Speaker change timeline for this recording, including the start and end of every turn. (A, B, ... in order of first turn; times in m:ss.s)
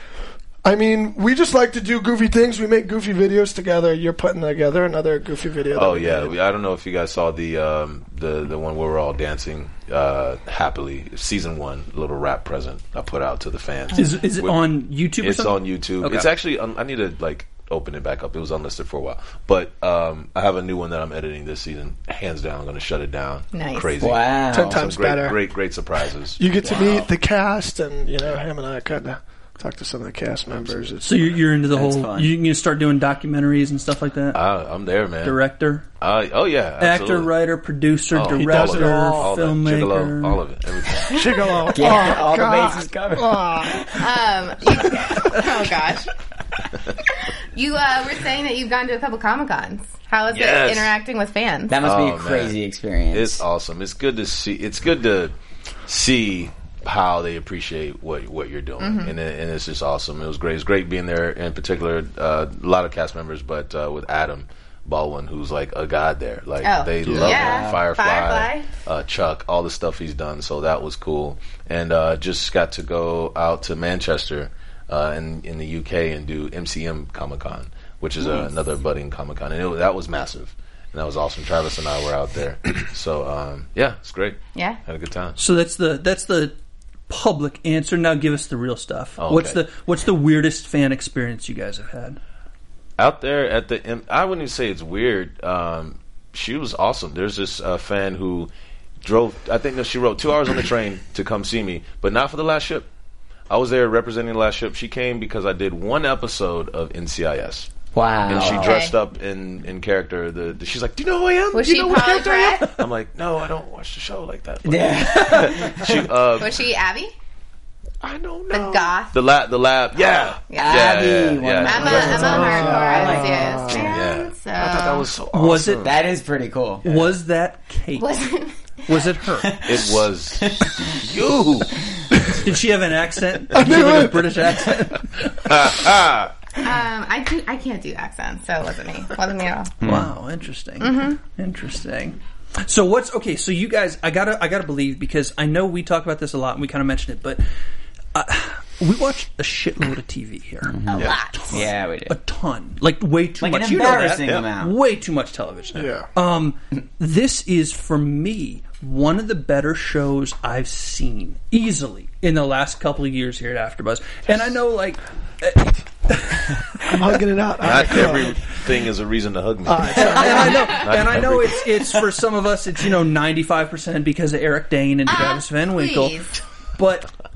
0:00.6-0:06.4 A
0:05.7-0:26.9 B
0:13.9-0:16.3 C
0:23.5-0:24.1 D
0:24.0-0:24.8 E
0:24.5-0:25.4 A
0:26.4-0:31.4 A
0:30.5-0:30.9 B
0:31.0-0:34.4 C
0:31.7-0:32.3 E
0:34.3-0:35.4 B
0:35.2-0:35.9 C
0:36.0-0:37.3 B
0:36.8-0:40.4 C
0:38.1-0:41.4 B
0:38.3-0:39.3 A
0:41.0-0:43.9 A
0:41.7-0:44.1 E
0:44.0-0:46.1 D
0:47.5-0:51.8 D
0:50.3-0:50.9 B
0:51.7-0:53.4 E
0:51.8-0:52.6 B
0:53.1-0:55.3 B
0:55.9-1:25.4 B
0:58.8-0:59.1 D
1:06.6-1:08.7 D
1:07.0-1:07.4 A
1:07.2-1:07.8 E
1:25.4-1:26.6 C
1:27.1-1:32.2 C
1:29.2-1:29.6 B
1:33.0-1:38.5 B
1:39.0-1:42.9 B
1:43.5-1:47.7 B
1:47.9-1:48.8 E
1:48.2-1:56.6 B
1:48.4-1:48.9 D
1:51.5-1:52.7 D
1:54.6-1:56.0 E
1:56.4-1:57.1 D
1:58.0-2:06.0 B
1:58.1-1:58.9 A
1:58.5-1:59.2 D
2:00.5-2:01.0 D
2:00.6-2:03.9 E
2:01.6-2:05.0 D
2:02.0-2:03.9 A
2:05.3-2:05.9 C
2:05.8-2:06.8 E
2:06.8-2:08.3 C
2:08.0-2:08.6 D
2:08.9-2:09.6 C
2:09.4-2:11.0 E
2:09.6-2:11.8 B
2:12.3-2:15.4 C
2:13.5-2:14.4 A
2:15.4-2:16.3 B
2:16.6-2:19.7 D
2:19.8-2:20.1 E
2:19.8-2:27.4 C
2:20.8-2:21.2 D
2:28.1-2:46.9 C
2:30.7-2:32.2 E
2:30.9-2:31.4 D
2:33.4-2:34.7 E
2:35.7-2:36.1 A
2:46.8-2:48.3 A
2:47.6-2:51.7 B
2:49.6-2:50.7 A
2:49.9-2:56.2 C
2:55.1-2:56.4 D
2:56.8-2:57.1 C